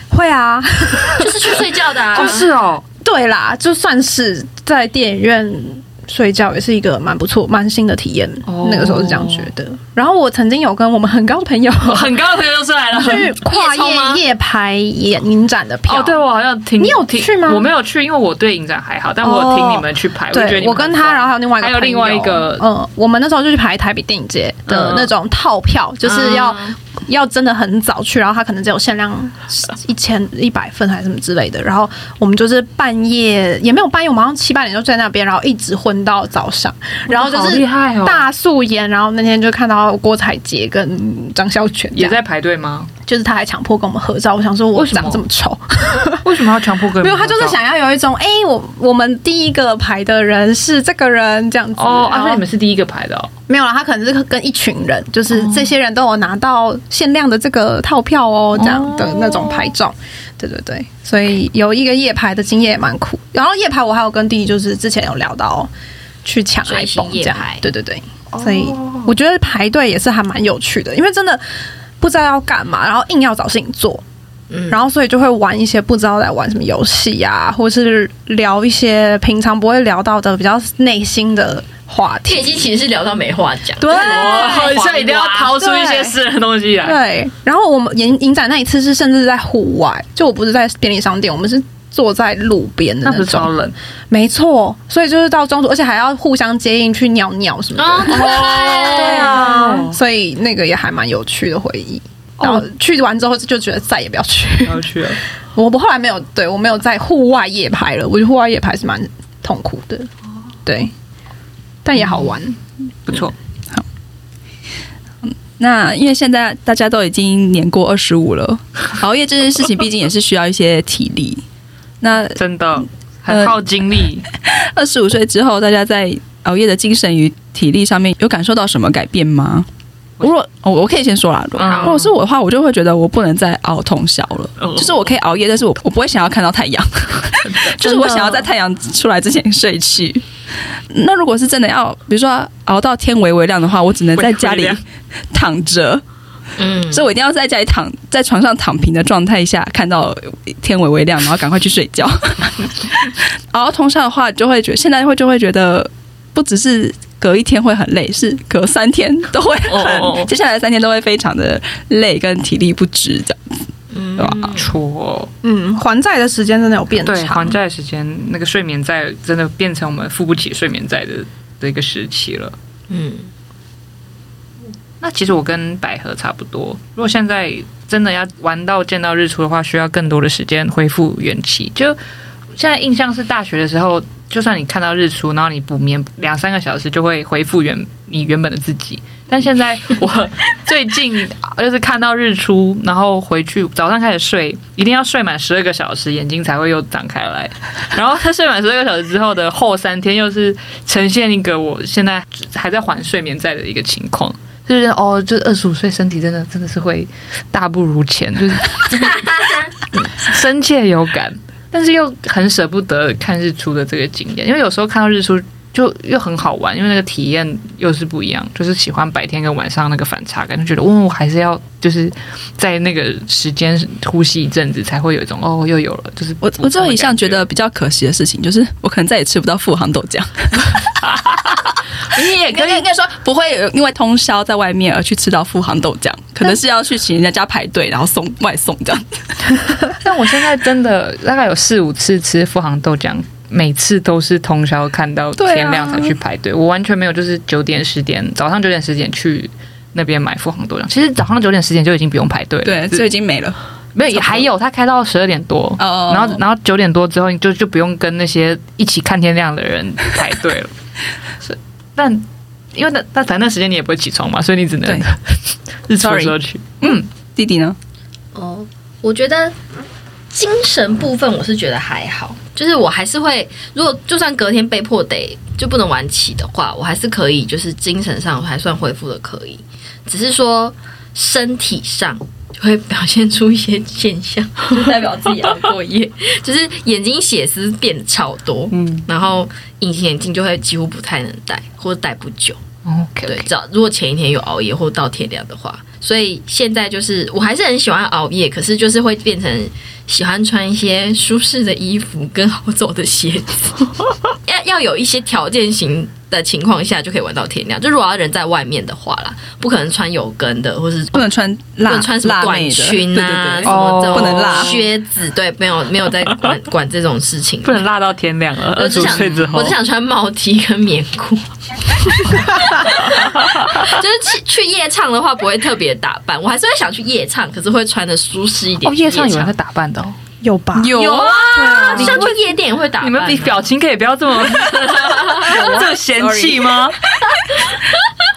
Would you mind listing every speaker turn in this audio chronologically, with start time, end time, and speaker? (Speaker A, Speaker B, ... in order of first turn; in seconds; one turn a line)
Speaker A: 0.1-2.4
Speaker B: 1.2-2.4
Speaker C: 2.1-2.8
Speaker A: 3.0-12.1
Speaker C: 8.4-9.5
Speaker C: 11.8-13.3
Speaker A: 12.9-16.2
Speaker B: 13.5-14.2
Speaker C: 15.9-22.6
Speaker A: 16.8-17.6
Speaker A: 19.2-42.2
Speaker C: 24.7-25.1
Speaker B: 26.0-26.7
Speaker C: 37.1-38.3
Speaker C: 41.9-42.9
Speaker A: 43.0-46.4
Speaker C: 44.7-45.2
Speaker C: 46.2-47.6
Speaker A: 47.0-52.4
Speaker C: 51.8-53.3
Speaker A: 53.5-65.7
Speaker C: 55.3-55.7
Speaker C: 58.5-59.7
Speaker A: 66.2-71.4
Speaker B: 66.6-67.6
Speaker C: 68.3-69.1
Speaker A: 72.0-74.0
Speaker B: 74.5-74.8
Speaker A: 74.7-82.7
Speaker B: 82.2-85.6
Speaker A: 83.8-84.7
Speaker C: 83.9-87.0
Speaker A: 85.6-86.2
Speaker A: 86.8-93.5
Speaker C: 93.0-93.7
Speaker A: 94.1-105.0
Speaker B: 97.8-99.4
Speaker C: 98.1-100.0
Speaker C: 102.4-102.6
Speaker C: 104.6-105.2
Speaker A: 105.5-110.1
Speaker A: 110.7-110.9
Speaker A: 111.8-112.6
Speaker C: 113.1-113.3
Speaker D: 115.2-121.4
Speaker D: 122.0-122.4
Speaker C: 122.3-124.3
Speaker D: 123.3-123.6
Speaker D: 124.3-129.7
Speaker D: 130.2-140.2
Speaker C: 131.6-132.1
Speaker B: 131.7-131.9
Speaker C: 134.6-135.0
Speaker C: 137.4-137.8
Speaker A: 137.8-138.4
Speaker D: 140.9-144.8
Speaker C: 144.2-144.8
Speaker D: 145.3-146.0
Speaker B: 146.6-147.0
Speaker D: 146.9-163.4
Speaker C: 159.7-160.3
Speaker B: 163.9-164.7
Speaker D: 164.2-164.5
Speaker C: 164.5-165.3
Speaker A: 165.4-167.6
Speaker C: 167.0-172.5
Speaker B: 172.9-173.3
Speaker C: 175.0-182.0
Speaker C: 182.6-209.4
Speaker B: 209.1-209.7
Speaker C: 210.1-227.4
Speaker D: 226.4-230.9
Speaker C: 231.1-231.5
Speaker C: 232.1-232.8
Speaker D: 232.1-239.5
Speaker C: 240.0-253.1
Speaker D: 245.4-246.2
Speaker D: 252.6-253.6
Speaker C: 253.9-260.7
Speaker D: 254.1-254.5
Speaker D: 255.8-256.4
Speaker C: 261.4-262.2
Speaker C: 262.7-267.1
Speaker D: 266.0-267.8
Speaker B: 268.3-269.6
Speaker B: 270.3-292.6
Speaker D: 284.7-285.5
Speaker C: 288.7-289.1
Speaker C: 292.8-293.5
Speaker B: 293.2-303.9
Speaker B: 304.4-311.2
Speaker D: 311.1-314.8
Speaker B: 311.8-317.8
Speaker C: 313.6-314.9
Speaker C: 317.6-319.8
Speaker B: 318.8-329.5
Speaker C: 323.1-323.9
Speaker C: 328.8-330.2
Speaker A: 330.4-330.9
Speaker C: 330.8-332.4
Speaker B: 330.9-333.7
Speaker D: 331.0-331.3
Speaker A: 331.7-332.2
Speaker C: 333.0-337.0
Speaker B: 334.5-335.9
Speaker D: 335.5-336.9
Speaker B: 337.3-338.1